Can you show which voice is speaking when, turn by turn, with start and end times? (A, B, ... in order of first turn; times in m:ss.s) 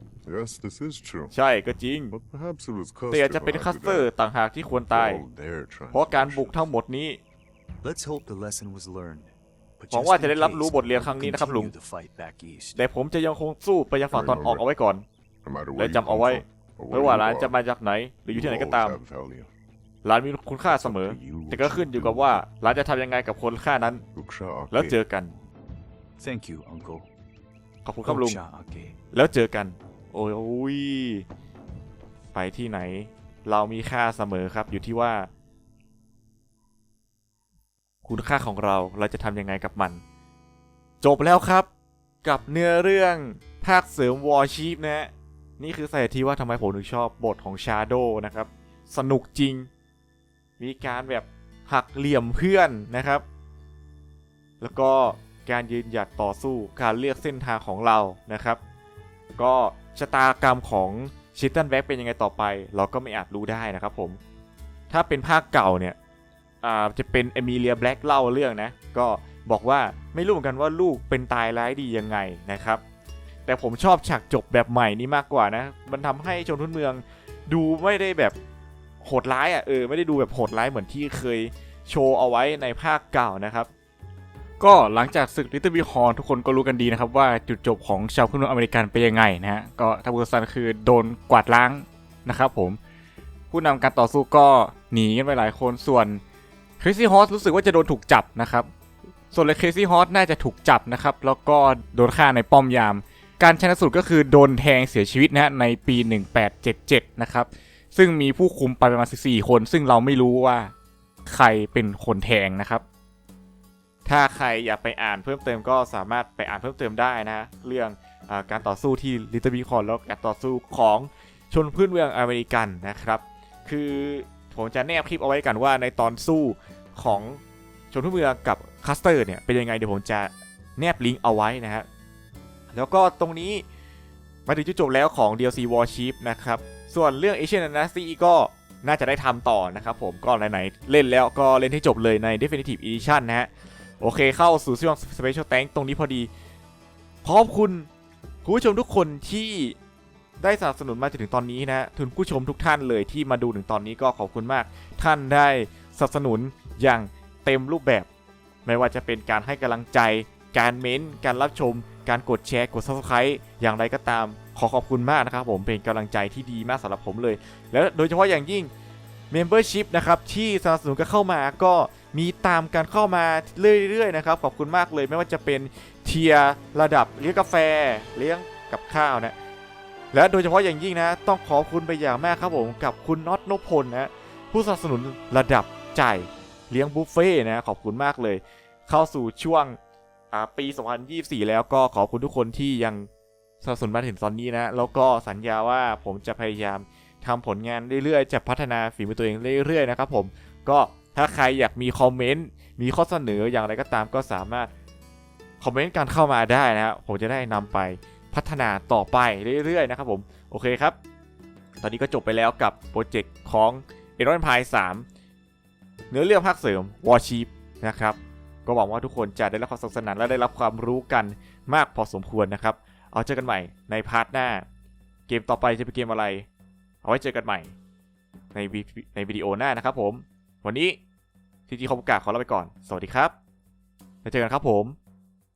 0:00.2-0:01.3 A
0:01.3-0:02.1 B
0:02.1-0:04.1 A
0:03.1-0:05.2 B
0:04.9-0:06.7 A
0:05.9-0:07.2 B
0:07.8-0:12.8 C
0:09.9-0:11.7 B
0:12.8-0:15.0 B
0:14.1-0:14.6 A
0:15.4-0:17.6 A
0:15.8-0:19.0 B
0:18.3-0:19.5 A
0:20.0-0:24.0 B
0:20.7-0:22.4 A
0:24.1-0:25.0 A
0:24.7-0:25.3 B
0:26.2-0:27.1 C
0:27.8-0:28.4 B
0:28.0-0:28.9 C
0:29.1-0:31.2 B
0:32.3-0:35.3 B
0:38.0-0:40.0 B
0:41.0-0:41.7 B
0:42.2-0:49.7 B
0:50.6-0:53.2 B
0:54.6-0:58.6 B
0:59.4-1:04.2 B
1:04.9-1:06.0 B
1:06.6-1:12.8 B
1:13.4-1:18.4 B
1:19.0-1:23.7 B
1:24.6-1:32.8 B
1:33.5-1:36.2 B
1:36.8-1:38.7 B
1:39.3-1:50.7 B
1:51.2-1:52.8 B
1:54.0-2:07.4 B
2:07.9-2:11.9 B
2:12.7-2:13.6 B
2:14.5-2:23.5 B
2:24.0-2:26.3 B
2:27.2-2:27.9 B
2:28.4-2:29.8 B
2:30.4-2:38.1 B
2:38.6-2:48.7 B
2:49.3-2:59.3 B
3:00.1-3:09.8 B
3:10.3-3:13.1 B
3:13.6-3:24.7 B
3:25.6-3:31.0 B
3:31.8-3:35.0 B
3:36.1-3:44.6 B
3:45.3-3:46.4 B
3:47.0-3:47.7 B
3:48.5-3:51.0 B
3:51.7-3:53.3 B
3:54.2-3:55.0 B